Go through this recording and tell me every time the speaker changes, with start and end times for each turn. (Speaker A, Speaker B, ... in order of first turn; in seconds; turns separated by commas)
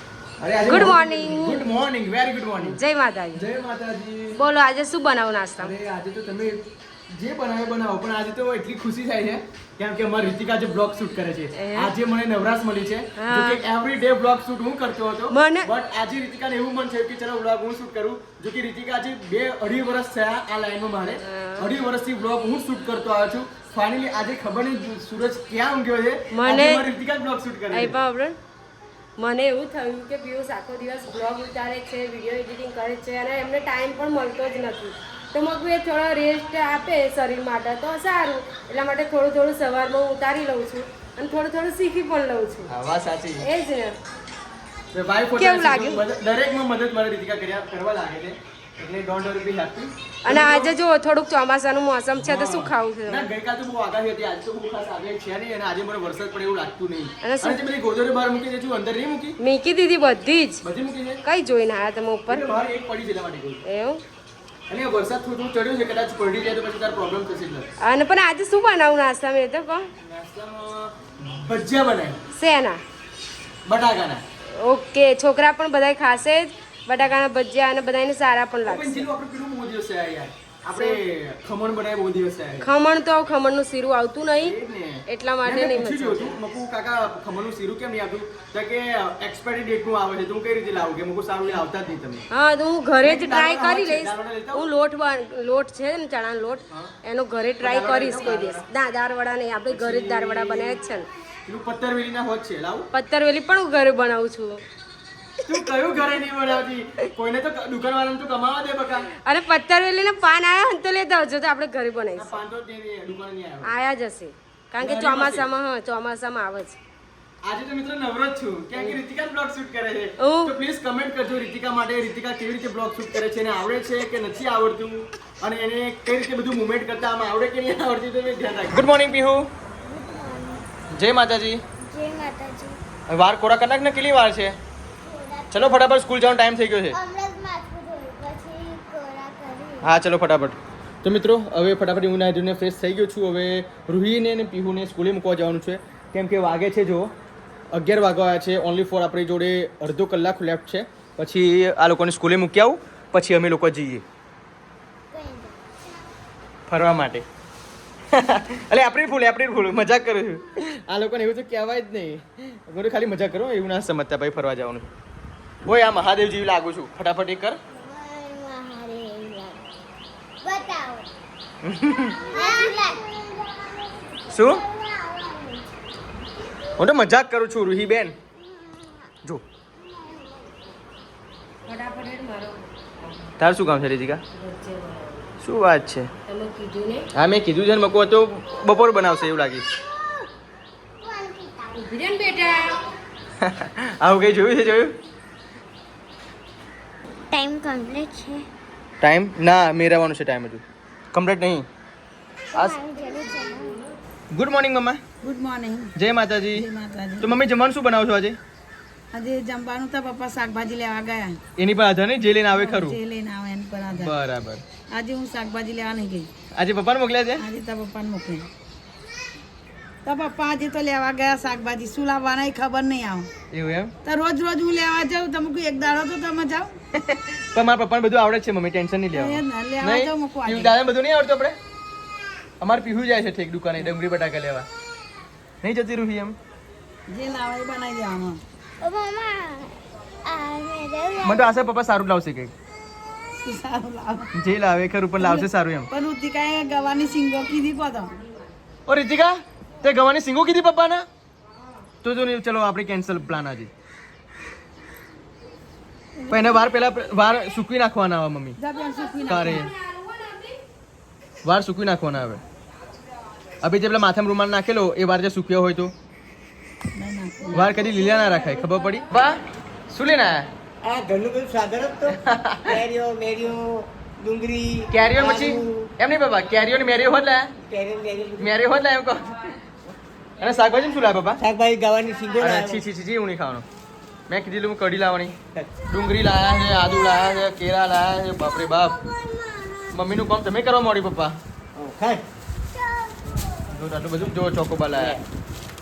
Speaker A: 0.4-2.8, Speaker B: 0.7-1.7, Speaker B: 2.6-3.5, Speaker A: 3.4-4.4, Speaker B: 4.3-5.7, Speaker A: 5.6-28.0, Speaker B: 11.6-11.9, Speaker B: 13.2-13.6, Speaker B: 15.3-15.7, Speaker B: 21.2-21.7, Speaker B: 26.3-26.9, Speaker B: 27.7-28.4, Speaker B: 29.2-42.7, Speaker A: 42.7-43.5, Speaker B: 43.4-43.9, Speaker A: 44.9-50.7, Speaker B: 45.4-46.0, Speaker B: 50.2-53.3, Speaker A: 52.2-59.4, Speaker B: 57.2-57.6, Speaker B: 59.4-60.6, Speaker A: 60.6-61.2, Speaker B: 61.2-62.5, Speaker A: 62.3-63.6, Speaker B: 63.6-64.0, Speaker A: 64.7-67.7, Speaker B: 67.8-69.9, Speaker A: 70.0-72.2, Speaker B: 72.3-72.8, Speaker A: 73.7-74.2, Speaker B: 74.5-79.1, Speaker A: 78.7-82.7, Speaker B: 80.7-81.0, Speaker B: 82.6-86.4, Speaker A: 84.4-92.3, Speaker B: 92.3-101.1, Speaker A: 93.0-94.7, Speaker A: 97.6-98.7, Speaker A: 99.7-100.8, Speaker A: 101.5-102.9, Speaker B: 102.9-104.6, Speaker A: 105.4-109.1, Speaker B: 109.2-112.4, Speaker A: 112.2-113.7, Speaker B: 113.6-116.8, Speaker A: 114.8-115.5, Speaker A: 117.4-129.5, Speaker B: 120.2-120.5, Speaker C: 129.8-130.7, Speaker A: 130.9-131.6, Speaker C: 131.8-132.8, Speaker A: 133.1-134.6, Speaker C: 135.0-135.7, Speaker A: 135.5-137.0, Speaker C: 136.9-139.9, Speaker A: 139.8-147.1, Speaker A: 147.7-154.0, Speaker C: 155.1-156.0, Speaker A: 156.7-157.2, Speaker A: 158.1-164.9, Speaker A: 165.7-167.6, Speaker C: 167.7-169.7, Speaker C: 170.4-171.1, Speaker A: 171.6-172.2, Speaker C: 172.2-175.7, Speaker A: 174.3-174.6, Speaker A: 176.8-178.2, Speaker C: 178.5-179.0, Speaker C: 179.8-180.4, Speaker B: 181.7-183.3, Speaker A: 183.4-184.2, Speaker B: 184.3-185.3, Speaker A: 185.4-186.1, Speaker B: 186.3-187.1, Speaker A: 187.1-189.7, Speaker C: 189.9-190.2, Speaker C: 191.0-191.8, Speaker B: 191.7-192.9, Speaker A: 193.4-194.9, Speaker C: 197.3-198.5, Speaker A: 199.0-201.7, Speaker C: 202.5-203.8, Speaker B: 203.0-203.9, Speaker A: 204.3-205.0, Speaker D: 205.2-205.9, Speaker A: 206.0-206.7, Speaker D: 206.5-207.3, Speaker A: 207.2-208.4, Speaker D: 209.1-211.4, Speaker A: 211.6-213.0, Speaker D: 212.6-214.1, Speaker A: 213.9-214.6, Speaker D: 214.9-216.3, Speaker A: 216.6-217.4, Speaker D: 217.4-218.5, Speaker D: 220.1-223.3, Speaker A: 223.5-223.9, Speaker D: 224.1-226.7, Speaker A: 227.0-231.6, Speaker D: 229.1-230.7, Speaker A: 232.6-234.7, Speaker A: 235.6-236.4, Speaker D: 237.1-238.4, Speaker C: 238.8-241.6, Speaker A: 241.2-242.5, Speaker D: 243.4-244.3, Speaker A: 244.4-245.9, Speaker D: 245.2-248.2, Speaker A: 248.9-251.1, Speaker A: 252.0-253.7, Speaker A: 256.3-258.6, Speaker D: 258.6-259.6, Speaker A: 259.3-259.7, Speaker B: 259.9-260.5, Speaker A: 261.4-262.4, Speaker A: 263.6-265.9, Speaker D: 267.0-267.7, Speaker A: 267.5-270.5, Speaker E: 270.8-275.9, Speaker A: 272.1-272.8, Speaker A: 274.9-277.5, Speaker E: 277.6-278.5, Speaker A: 278.4-279.4, Speaker A: 280.4-281.4, Speaker E: 281.4-282.8, Speaker A: 282.4-283.6, Speaker A: 284.3-285.4, Speaker A: 285.9-289.0, Speaker A: 289.9-291.4, Speaker E: 291.8-292.2, Speaker A: 293.7-295.2, Speaker E: 295.0-295.2